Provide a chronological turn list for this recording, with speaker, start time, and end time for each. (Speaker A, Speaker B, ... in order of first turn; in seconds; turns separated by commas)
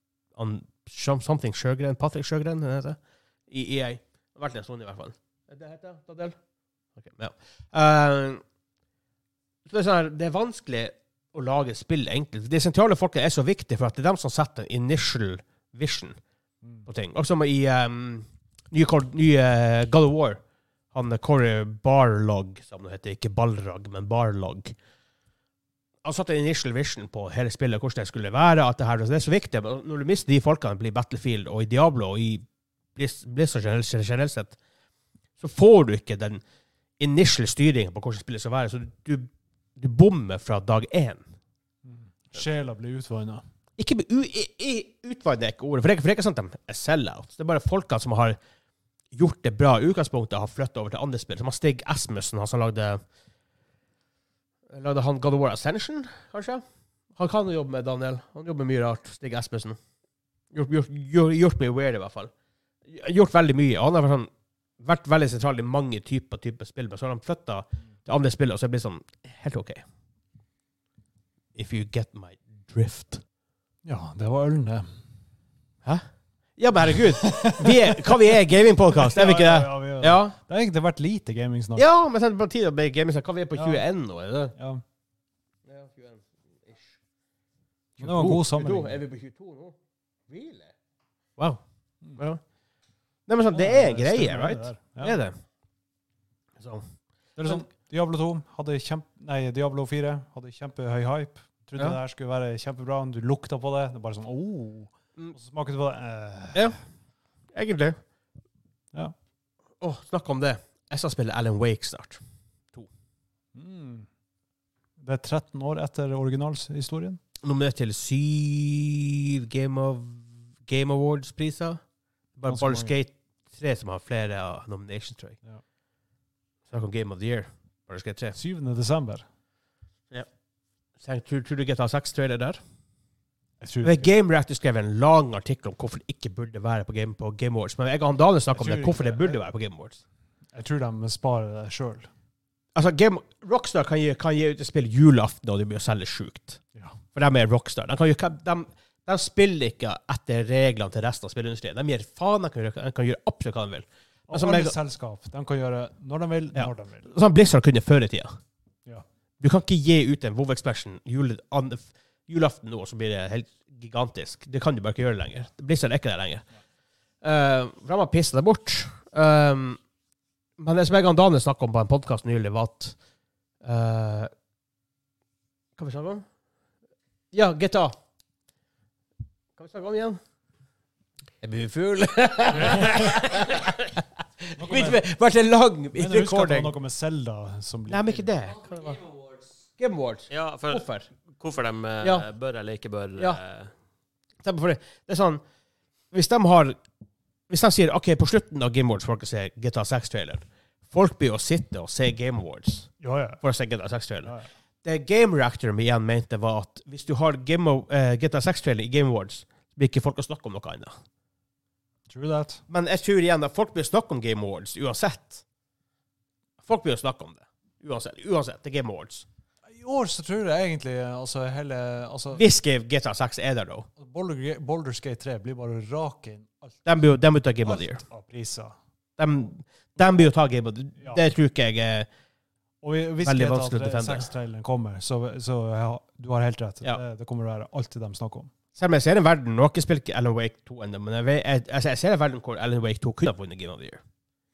Speaker A: 0.3-6.3, Speaker A: 6.9-8.4, Speaker A: 9.7-16.1, Speaker A: 16.9-24.7, Speaker A: 26.0-34.6, Speaker A: 35.4-36.4, Speaker A: 37.0-41.3, Speaker B: 41.8-43.4, Speaker A: 43.8-48.4, Speaker A: 49.1-53.0, Speaker A: 54.7-56.6, Speaker A: 57.1-59.8, Speaker A: 60.5-62.3, Speaker A: 62.9-69.8, Speaker A: 71.5-73.2, Speaker B: 73.8-74.9, Speaker A: 75.8-80.4, Speaker B: 77.4-77.6, Speaker B: 78.9-81.8, Speaker A: 81.8-84.5, Speaker B: 83.5-83.8, Speaker B: 84.5-84.8, Speaker A: 85.7-87.0, Speaker B: 88.0-89.0, Speaker A: 88.0-89.7, Speaker A: 90.3-90.7, Speaker A: 91.4-92.4, Speaker A: 93.2-95.3, Speaker B: 93.5-95.2, Speaker A: 96.5-96.8, Speaker B: 97.3-106.7, Speaker A: 107.5-108.0, Speaker A: 109.8-112.2, Speaker B: 113.5-114.1, Speaker B: 115.0-117.2, Speaker A: 117.4-121.8, Speaker A: 122.3-125.4, Speaker B: 122.5-122.9, Speaker A: 126.7-128.3, Speaker B: 128.3-129.3, Speaker A: 131.0-132.6, Speaker B: 133.6-134.1, Speaker A: 133.8-140.0, Speaker B: 138.5-139.4, Speaker B: 140.5-142.1, Speaker A: 142.7-154.8, Speaker B: 146.7-147.0, Speaker B: 154.3-157.1, Speaker A: 156.5-158.3, Speaker A: 159.4-166.6, Speaker A: 167.2-169.8, Speaker A: 170.6-173.0, Speaker A: 173.6-174.3, Speaker A: 175.8-176.2, Speaker A: 177.3-177.9, Speaker A: 179.6-180.2, Speaker A: 181.4-183.7, Speaker C: 182.7-182.9, Speaker B: 184.6-185.1, Speaker A: 184.6-186.7, Speaker B: 185.9-188.3, Speaker A: 187.9-189.1, Speaker A: 189.8-191.1, Speaker C: 190.3-193.7, Speaker A: 192.0-192.3, Speaker A: 193.2-193.4, Speaker A: 194.4-195.4, Speaker A: 196.1-196.8, Speaker A: 197.5-210.9, Speaker B: 203.0-203.4, Speaker B: 204.2-204.5, Speaker B: 212.1-212.6, Speaker A: 212.7-215.4, Speaker A: 216.6-219.2, Speaker B: 219.6-222.4, Speaker A: 222.3-223.9, Speaker B: 224.0-228.8, Speaker A: 226.8-228.0, Speaker A: 229.2-232.1, Speaker B: 232.8-238.5, Speaker A: 233.2-234.3, Speaker A: 238.7-244.0